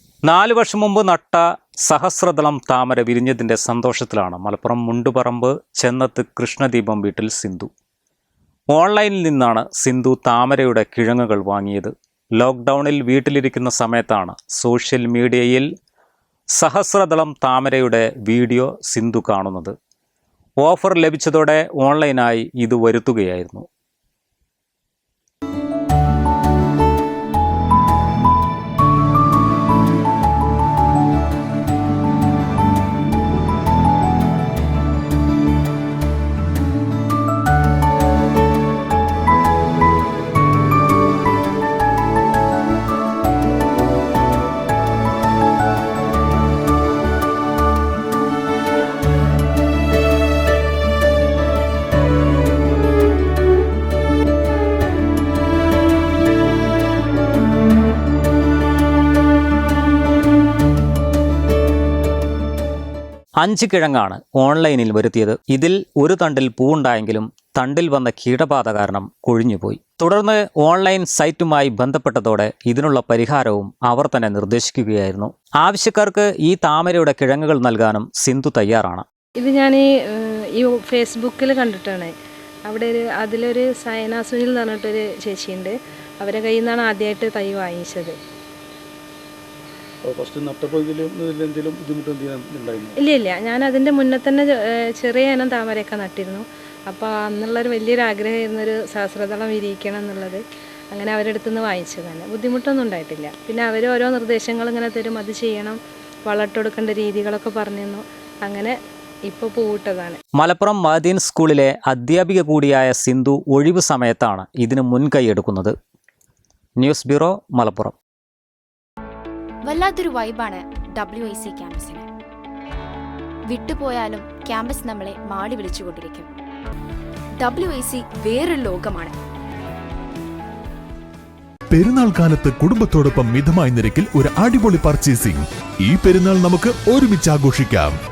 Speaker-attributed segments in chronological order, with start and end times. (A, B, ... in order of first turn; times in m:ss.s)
0:00.3-0:07.7 A
0:08.7-0:15.7 A
0:16.5-0:19.7 A
0:20.6-0:23.6 A
1:03.4-1:19.0 A
1:19.4-1:22.1 B
1:22.6-1:28.2 B
1:30.0-1:33.0 C
1:33.0-1:48.8 B
1:49.3-1:50.2 B
1:50.4-1:55.7 A
1:56.8-1:58.0 A
1:59.6-2:02.1 D
2:03.5-2:06.3 D
2:07.4-2:09.2 D
2:11.7-2:18.0 E